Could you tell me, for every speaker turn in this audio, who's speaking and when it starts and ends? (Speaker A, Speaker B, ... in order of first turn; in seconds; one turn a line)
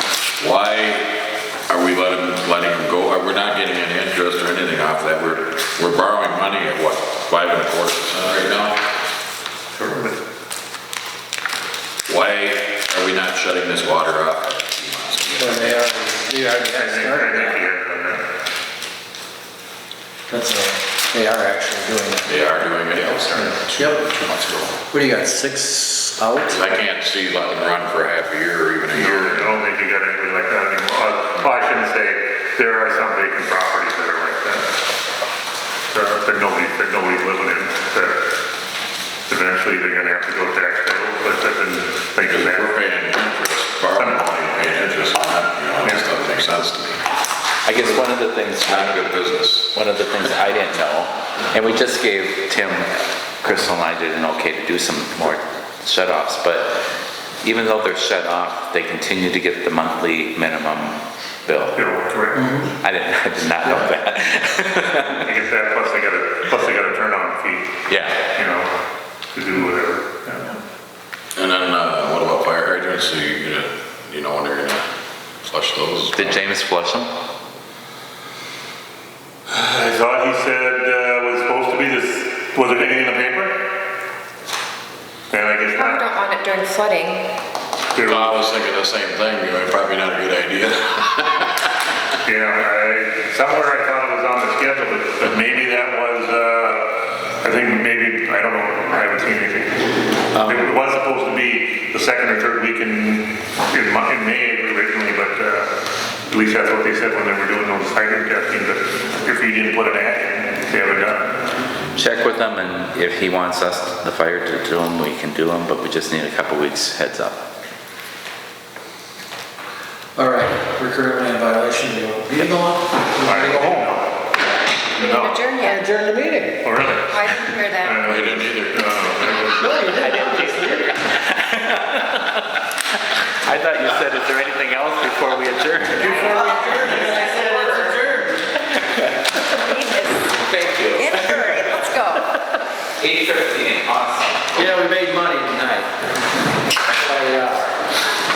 Speaker A: 0.4-8.8
Speaker B: 9.7-10.2
Speaker A: 12.1-15.9
Speaker C: 15.4-17.6
Speaker B: 16.7-18.2
Speaker C: 20.3-22.4
Speaker A: 22.2-24.7
Speaker C: 23.4-24.1
Speaker C: 24.8-26.6
Speaker A: 26.5-29.6
Speaker B: 28.9-34.7
Speaker B: 35.9-38.2
Speaker B: 39.3-42.7
Speaker A: 42.2-47.0
Speaker B: 43.9-45.1
Speaker B: 45.8-46.1
Speaker D: 47.6-56.8
Speaker A: 48.6-49.8
Speaker D: 57.4-61.8
Speaker B: 61.7-62.5
Speaker C: 62.4-62.7
Speaker D: 62.8-65.3
Speaker B: 65.2-67.8
Speaker D: 67.9-68.2
Speaker B: 68.3-68.7
Speaker B: 69.3-70.6
Speaker A: 71.4-74.9
Speaker A: 75.4-76.4
Speaker D: 76.2-77.1
Speaker B: 79.5-83.6
Speaker B: 85.3-86.0
Speaker E: 85.7-87.3
Speaker B: 87.9-88.3
Speaker A: 88.1-91.7
Speaker B: 92.2-96.8
Speaker B: 97.4-105.7
Speaker D: 100.3-100.6
Speaker B: 106.3-111.4
Speaker D: 112.0-117.4
Speaker C: 120.2-124.0
Speaker B: 123.2-124.1
Speaker B: 124.9-125.5
Speaker E: 125.0-125.9
Speaker C: 125.6-126.7
Speaker B: 126.6-129.7
Speaker E: 127.1-128.1
Speaker A: 128.1-129.8
Speaker C: 129.6-130.9
Speaker D: 129.9-132.3
Speaker D: 133.4-136.3
Speaker C: 135.9-138.4
Speaker E: 136.4-137.9
Speaker E: 139.5-140.4
Speaker D: 140.3-141.8
Speaker E: 141.0-142.3
Speaker D: 143.0-144.5
Speaker C: 144.6-145.9
Speaker C: 147.0-147.7